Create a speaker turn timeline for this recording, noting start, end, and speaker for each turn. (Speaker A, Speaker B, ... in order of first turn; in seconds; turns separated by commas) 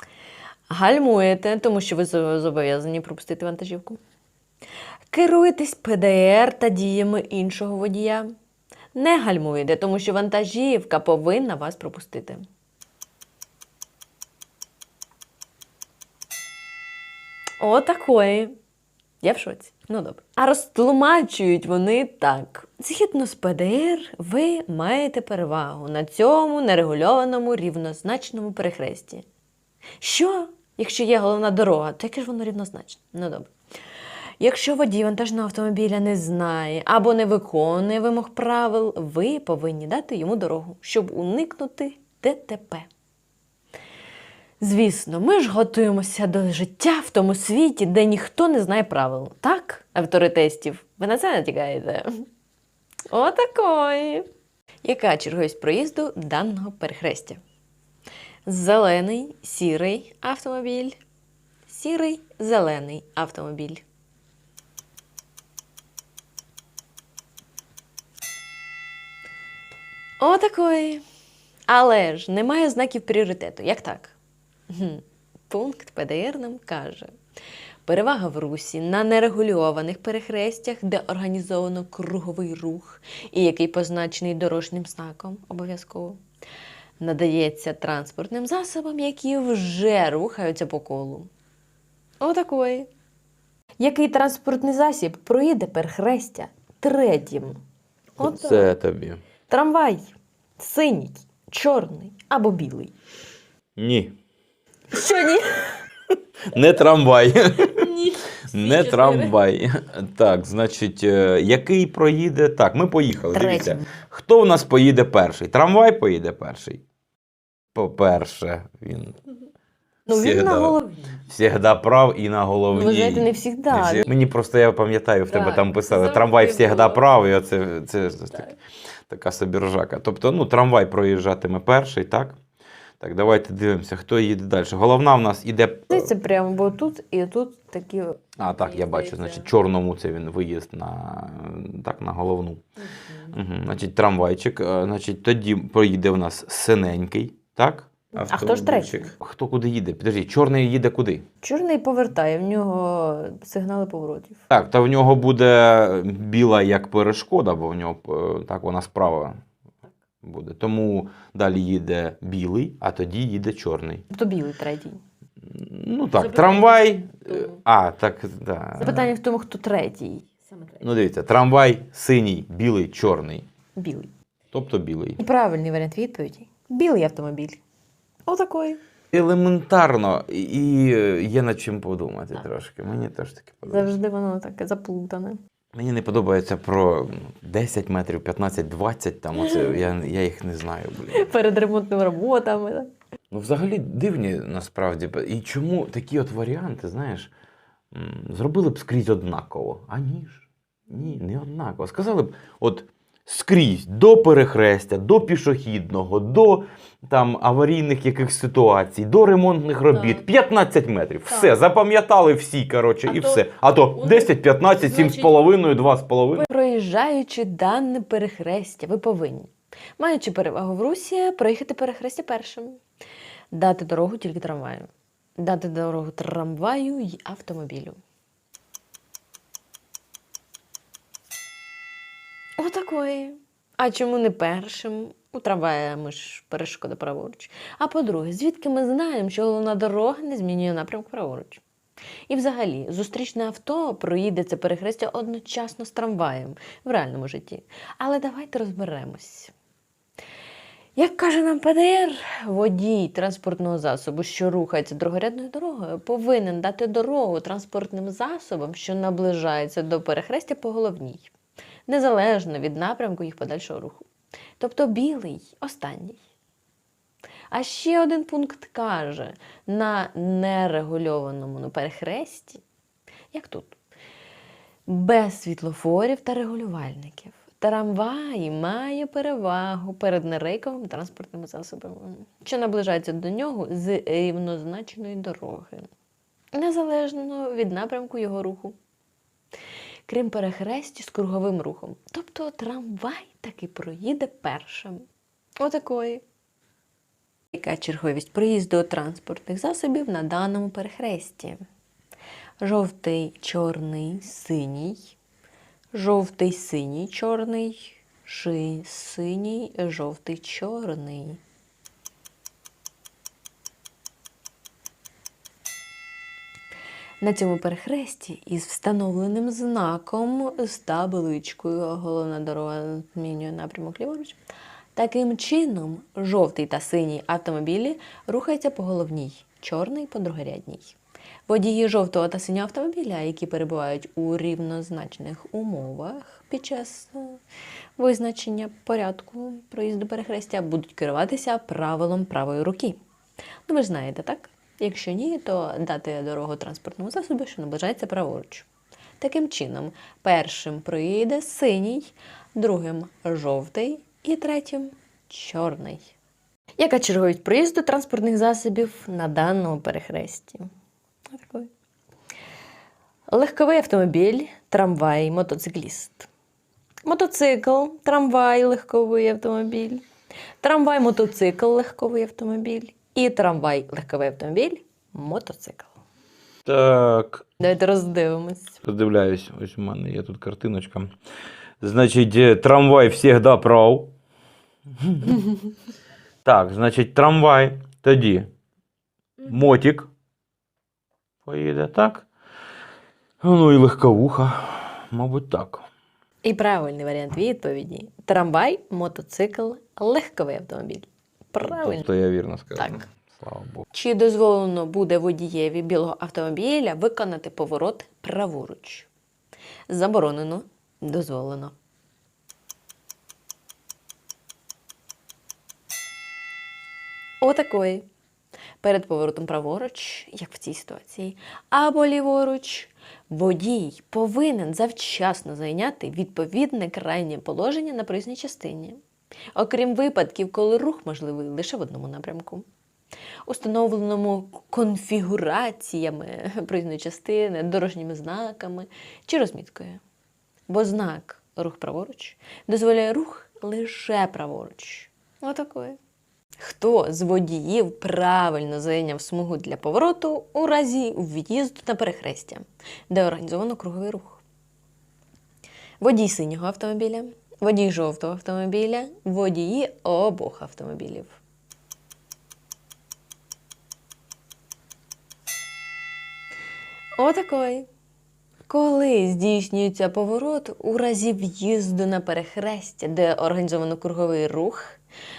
Speaker A: 0.7-4.0, Speaker A: 5.1-8.3, Speaker A: 8.9-12.4, Speaker A: 17.6-18.5, Speaker A: 19.2-29.2, Speaker A: 30.0-33.5, Speaker A: 34.4-42.9, Speaker A: 44.6-52.2, Speaker A: 53.1-54.2, Speaker A: 54.8-57.4, Speaker A: 58.5-61.0, Speaker A: 61.7-63.8, Speaker A: 70.2-71.0, Speaker A: 71.7-74.2, Speaker A: 74.7-77.1, Speaker A: 77.8-86.2, Speaker A: 87.0-91.3, Speaker A: 92.2-92.9, Speaker A: 93.8-97.6, Speaker A: 98.2-98.7, Speaker B: 98.2-99.2, Speaker A: 99.5-102.9, Speaker B: 103.8-104.2, Speaker A: 104.9-105.8, Speaker B: 106.5-107.9, Speaker A: 107.8-109.4, Speaker B: 108.5-116.8, Speaker A: 113.3-113.9, Speaker B: 117.7-119.2, Speaker A: 120.1-121.2, Speaker B: 120.1-128.6, Speaker A: 122.7-124.1, Speaker A: 125.3-127.0, Speaker B: 129.1-132.4, Speaker B: 133.0-136.1, Speaker A: 135.9-139.5, Speaker B: 138.4-142.6, Speaker B: 143.2-151.2, Speaker A: 148.2-149.1, Speaker A: 151.4-154.4, Speaker B: 154.5-159.3, Speaker B: 160.2-164.0, Speaker A: 164.1-165.0, Speaker B: 165.4-169.1, Speaker A: 166.2-167.6, Speaker A: 168.8-170.8, Speaker B: 170.8-173.4, Speaker A: 173.8-174.1, Speaker B: 174.5-175.2, Speaker A: 175.2-177.6, Speaker A: 178.3-178.8, Speaker B: 179.1-183.9, Speaker A: 183.7-185.4, Speaker B: 185.7-191.3, Speaker A: 189.3-189.8, Speaker A: 191.1-192.9, Speaker B: 193.3-197.3, Speaker B: 197.9-216.5, Speaker A: 209.9-210.2, Speaker A: 213.1-213.4, Speaker A: 214.9-215.2, Speaker A: 216.3-222.8, Speaker A: 223.5-228.0, Speaker A: 232.6-241.6, Speaker A: 242.3-249.5, Speaker A: 250.9-261.3, Speaker A: 261.9-264.1, Speaker A: 264.6-266.2, Speaker A: 267.5-272.6, Speaker A: 273.3-273.8, Speaker A: 274.9-285.9, Speaker A: 286.5-288.8, Speaker A: 290.1-295.1, Speaker A: 295.6-296.2, Speaker A: 297.5-301.6, Speaker A: 302.6-305.1, Speaker A: 305.9-311.4, Speaker A: 317.2-324.4, Speaker A: 324.9-330.9, Speaker A: 331.5-337.4, Speaker A: 338.0-343.0, Speaker A: 343.7-348.7, Speaker A: 349.2-356.1, Speaker A: 356.8-360.7, Speaker A: 361.3-361.7, Speaker A: 363.3-366.3, Speaker A: 367.0-370.0, Speaker A: 370.6-375.9, Speaker B: 376.6-377.5, Speaker A: 377.6-378.8, Speaker B: 378.8-381.1, Speaker B: 381.8-384.1, Speaker B: 385.0-385.4, Speaker B: 386.4-388.5, Speaker B: 389.4-390.1, Speaker B: 391.4-392.3, Speaker B: 393.4-395.9, Speaker A: 396.4-402.1, Speaker B: 401.6-403.8, Speaker A: 402.8-403.0, Speaker A: 403.9-409.1, Speaker A: 409.9-411.7, Speaker A: 417.4-418.1, Speaker A: 418.8-429.0, Speaker A: 429.5-432.6, Speaker A: 433.4-440.0, Speaker A: 440.7-446.0, Speaker A: 446.6-454.4, Speaker A: 456.0-461.4, Speaker A: 467.2-467.9, Speaker A: 468.7-475.0